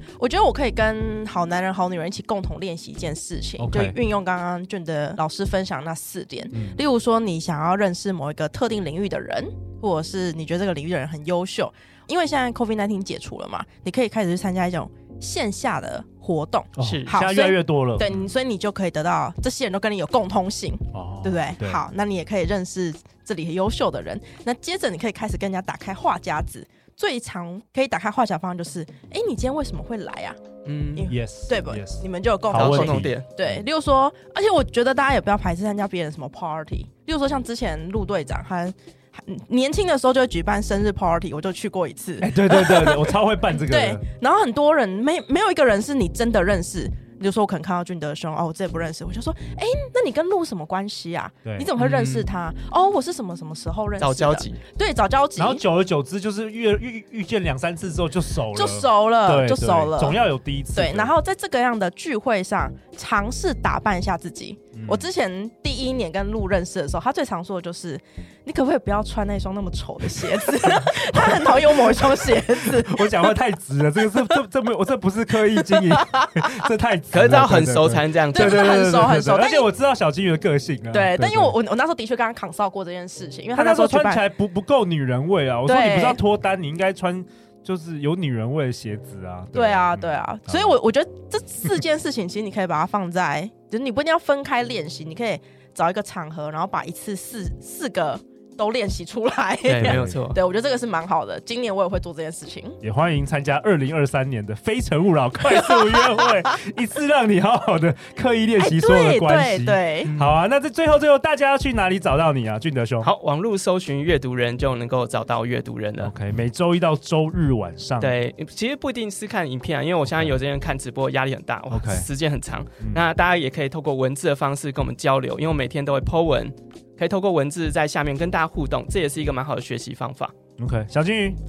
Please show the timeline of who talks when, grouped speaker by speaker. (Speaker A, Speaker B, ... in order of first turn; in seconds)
Speaker A: 0.2-30.4, 30.9-55.6, 58.5-60.2, 60.8-73.3, 74.0-74.4, 75.5-76.5, 78.3-79.7, 80.9-84.3, 85.7-86.2, 89.5-102.8, 105.7-106.3, 108.6-110.1
Speaker B: 3.6-4.0, 6.5-6.8, 16.8-18.3, 20.9-21.8, 31.1-33.6, 42.2-44.0, 51.5-51.7, 55.4-61.1, 64.8-65.1, 70.6-81.5, 83.6-90.8, 99.8-100.2, 102.8-113.1, 116.0-118.2, 121.7-122.1, 130.6-131.4
Speaker C: 16.8-17.1, 30.7-31.1, 32.5-33.3, 51.8-52.2, 54.0-54.6, 77.1-78.8, 99.7-100.4, 110.0-110.3, 113.0-116.1, 118.0-130.3